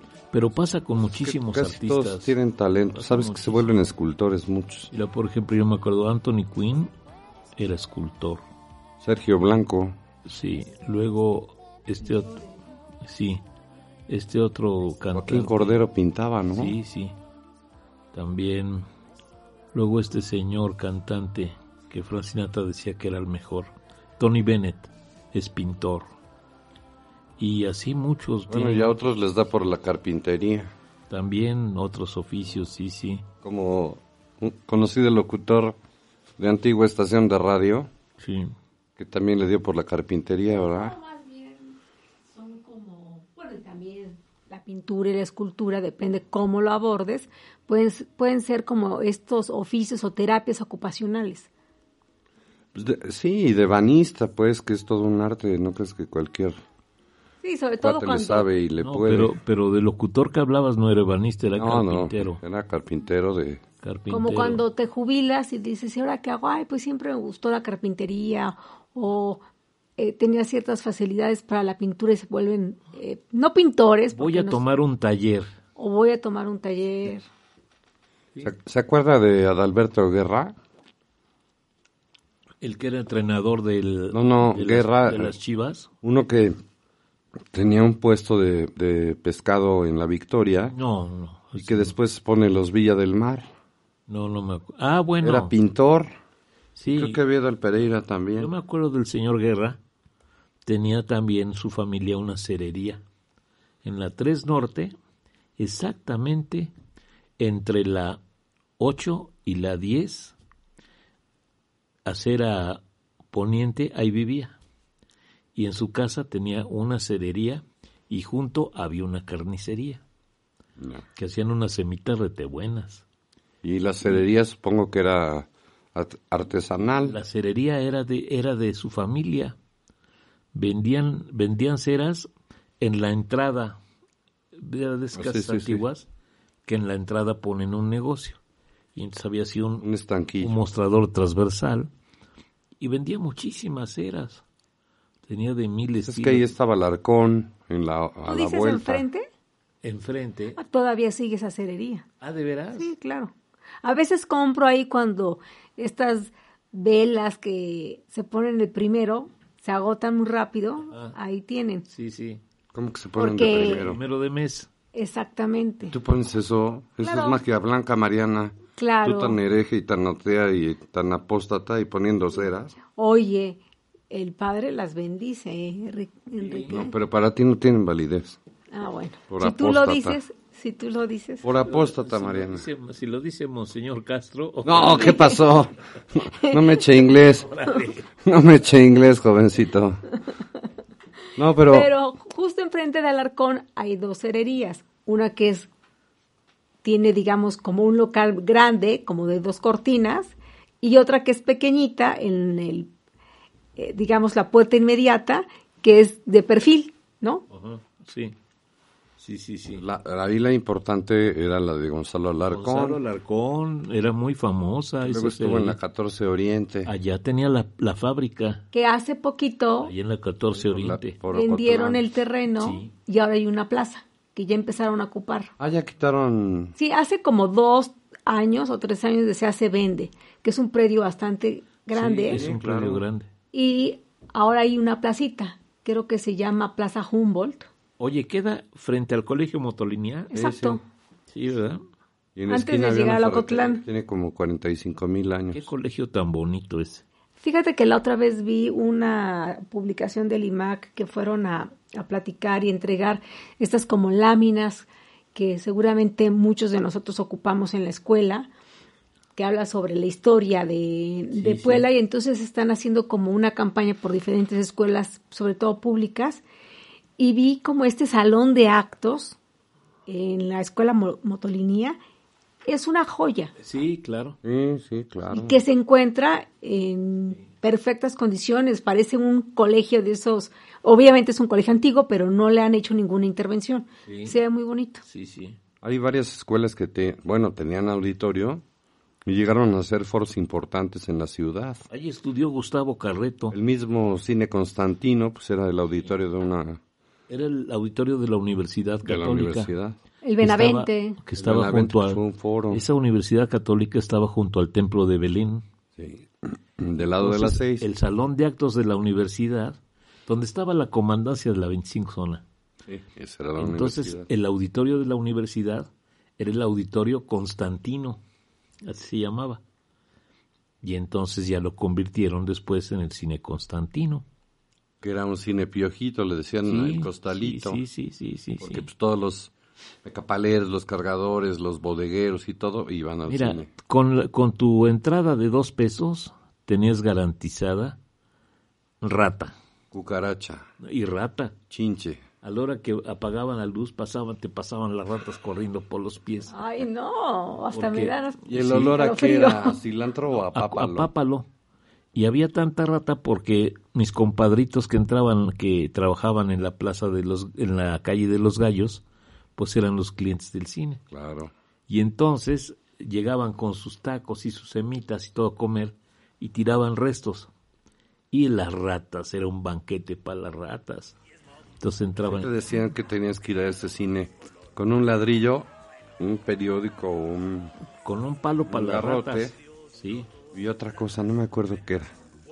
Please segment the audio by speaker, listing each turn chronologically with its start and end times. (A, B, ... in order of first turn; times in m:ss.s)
0:00.3-0:02.3 A
0:01.1-0:04.9 B
0:02.9-0:03.7 A
0:04.9-0:06.9 A
0:07.6-0:08.4 A
0:09.0-0:10.0 B
0:10.3-0:13.4 A
0:14.1-0:15.8 A
0:15.1-0:16.8 B
0:16.5-0:17.2 A
0:18.1-0:18.9 A
0:19.7-0:26.1 A
0:27.4-0:28.9 A
0:28.5-0:30.7 B
0:31.1-0:33.2 A
0:33.4-0:35.8 B
0:36.4-0:37.9 B
0:38.2-0:38.5 A
0:39.0-0:41.0 B
0:40.7-0:41.8 C
0:42.3-0:51.5 C
0:52.7-0:56.6 B
0:57.4-0:58.5 C
0:57.8-0:59.4 B
0:58.8-1:02.4 A
1:01.6-1:03.6 B
1:03.8-1:04.6 A
1:04.1-1:09.4 C
1:10.0-1:14.6 C
1:14.1-1:15.5 A
1:15.8-1:17.3 C
1:18.4-1:20.6 B
1:22.6-1:25.9 A
1:24.1-1:25.4 B
1:26.0-1:26.6 B
1:27.5-1:30.8 B
1:30.7-1:31.9 A
1:31.6-1:33.5 B
1:34.1-1:35.5 A
1:35.2-1:36.1 B
1:36.8-1:37.2 A
1:37.0-1:38.5 B
1:38.4-1:39.8 A
1:40.7-1:43.0 A
1:43.8-1:45.0 A
1:45.6-1:46.7 A
1:47.4-1:48.2 A
1:48.8-1:50.4 A
1:52.1-1:54.6 A
1:55.6-2:00.0 A
2:00.8-2:01.0 B
2:01.2-2:03.0 A
2:03.6-2:07.2 B
2:07.0-2:09.6 A
2:10.5-2:13.8 A
2:14.6-2:16.1 A
2:15.1-2:15.8 B
2:16.7-2:18.4 A
2:19.0-2:19.9 A
2:19.8-2:20.6 B
2:20.4-2:21.9 A
2:22.8-2:24.4 A
2:25.3-2:26.5 A
2:26.0-2:29.0 B
2:28.3-2:29.3 C
2:29.8-2:30.6 A
2:30.6-2:32.1 C
2:32.2-2:32.9 A
2:32.7-2:41.9 C
2:41.9-2:42.4 A
2:42.7-2:44.0 B
2:43.2-2:43.9 C
2:43.7-2:44.7 A
2:44.9-2:46.0 C
2:45.9-2:52.8 B
2:47.0-2:47.4 C
2:48.8-2:49.4 C
2:53.0-2:56.9 C
2:56.4-2:56.7 A
2:56.7-2:58.4 B
2:58.7-3:01.5 C
2:59.3-3:00.2 B
3:01.4-3:02.7 B
3:01.6-3:05.3 A
3:04.6-3:07.5 B
3:06.4-3:06.9 C
3:07.5-3:08.0 A
3:08.2-3:10.0 B
3:11.4-3:11.9 B
3:11.7-3:15.7 C
3:16.8-3:22.9 C
3:23.8-3:27.5 C
3:27.5-3:28.3 A
3:29.2-3:29.8 A
3:29.8-3:33.0 B
3:32.5-3:35.8 A
3:35.0-3:36.9 B
3:36.8-3:38.6 A
3:38.7-3:40.0 C
3:39.8-3:41.2 A
3:40.5-3:42.0 B
3:41.3-3:45.5 C
3:42.6-3:42.9 A
3:45.6-3:46.8 B
3:46.8-3:52.4 C
3:51.9-3:53.3 A
3:52.3-3:53.0 B
3:53.5-3:57.7 C
3:58.0-4:00.3 A
4:00.3-4:00.8 C
4:00.3-4:00.8 B
4:01.3-4:01.8 A
4:02.4-4:05.6 B
4:02.5-4:03.8 C
4:05.5-4:07.0 A
4:07.4-4:18.5 C
4:19.4-4:26.4 C
4:21.3-4:21.9 A
4:27.2-4:29.4 C
4:30.1-4:32.0 C
4:32.7-4:33.5 C
4:33.6-4:34.4 A
4:34.4-4:35.6 B
4:35.3-4:45.0 C
4:44.1-4:44.3 A
4:45.1-4:45.6 A
4:45.8-4:48.6 B
4:49.3-4:51.8 B
4:51.9-4:53.5 A
4:53.5-4:56.8 B
4:57.3-4:59.7 A
4:59.0-5:00.0 B
5:00.2-5:01.2 C
5:00.4-5:05.6 A
5:01.4-5:02.8 B
5:06.0-5:07.9 B
5:07.2-5:12.4 A
5:12.9-5:14.3 B
5:13.6-5:18.2 A
5:18.8-5:19.6 A
5:20.8-5:24.2 A
5:25.0-5:27.8 B
5:26.6-5:28.8 A
5:28.6-5:29.5 B
5:30.0-5:33.7 B
5:33.3-5:38.0 A
5:39.0-5:39.5 A
5:39.9-5:40.7 B
5:40.8-5:41.6 A
5:41.7-5:42.3 B
5:42.4-5:46.6 A
5:46.5-5:49.8 C
5:47.7-5:48.8 A
5:48.5-5:51.1 B
5:50.5-5:51.5 A
5:52.2-5:59.0 A
5:59.6-6:01.0 A
6:01.1-6:01.5 B
6:01.9-6:07.5 A
6:08.3-6:11.2 A
6:11.8-6:12.5 A
6:12.2-6:17.7 B
6:18.0-6:20.3 A
6:18.7-6:19.6 B
6:20.5-6:22.1 B